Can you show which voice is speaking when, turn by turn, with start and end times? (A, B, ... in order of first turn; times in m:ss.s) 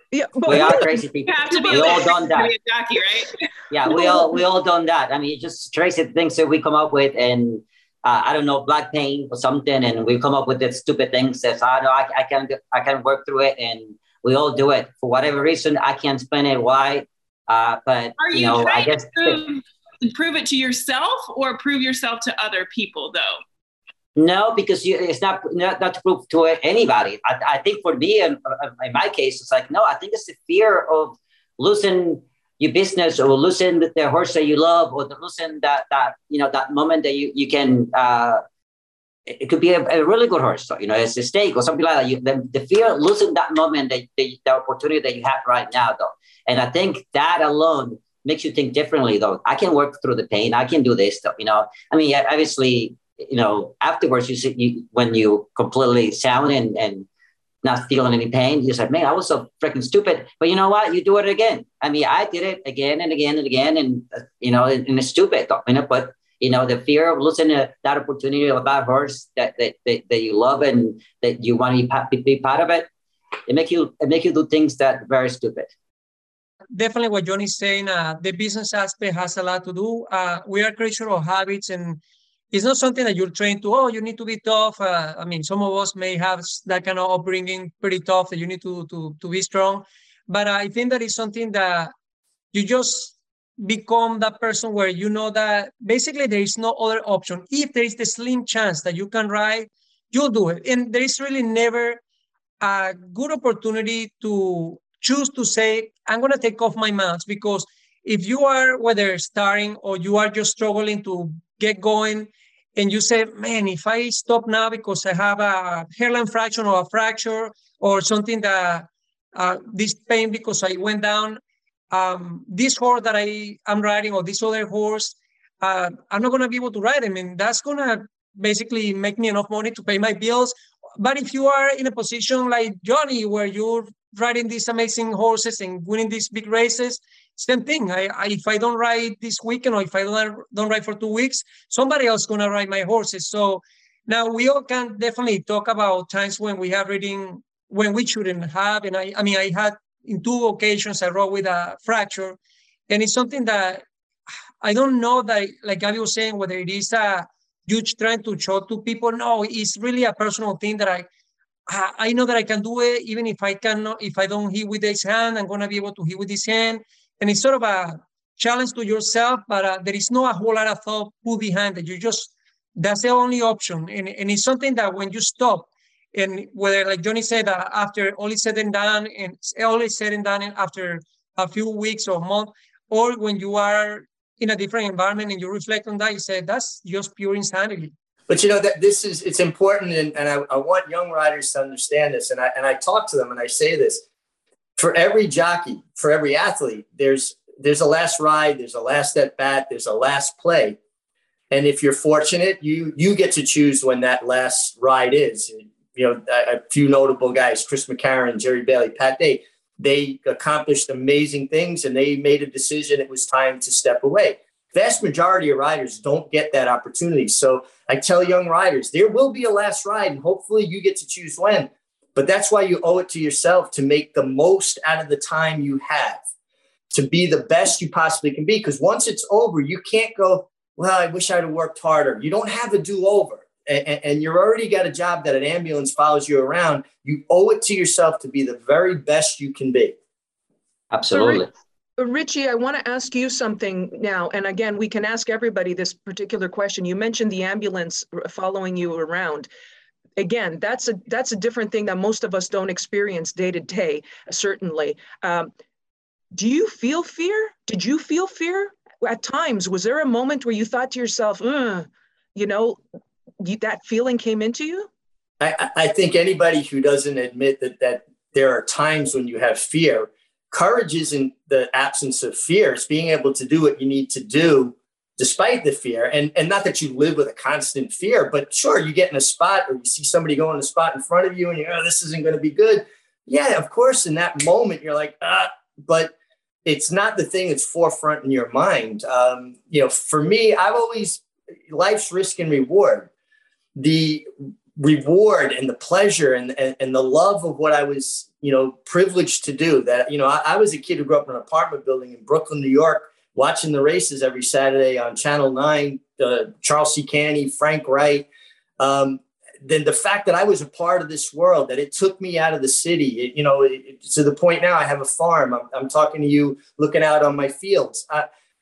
0:00.1-0:01.1 A
0:00.5-0:02.5 B
0:00.5-0:04.2 C
0:01.7-0:02.1 A
0:03.7-0:19.4 B
0:18.2-0:23.4 C
0:24.2-0:38.4 B
0:39.3-0:57.1 B
0:57.6-1:12.9 B
1:13.5-1:15.7 B
1:16.7-1:22.0 D
1:22.5-1:31.9 D
1:32.5-1:42.0 D
1:42.6-2:01.4 D
2:01.9-2:32.4 D
2:32.9-2:33.8 D
2:34.6-2:41.1 D
2:41.7-3:07.9 D
3:08.3-3:14.0 E
3:14.8-3:20.8 E
3:21.5-3:46.2 E
3:46.9-4:00.0 E
4:00.9-4:01.5 B
4:01.1-4:01.4 A
4:02.0-4:09.5 A
4:10.2-4:15.5 A
4:16.3-4:22.8 A
4:23.4-4:24.9 A
4:25.4-4:46.1 E
4:46.6-4:53.1 E
4:53.8-5:08.3 E
5:08.8-5:18.3 E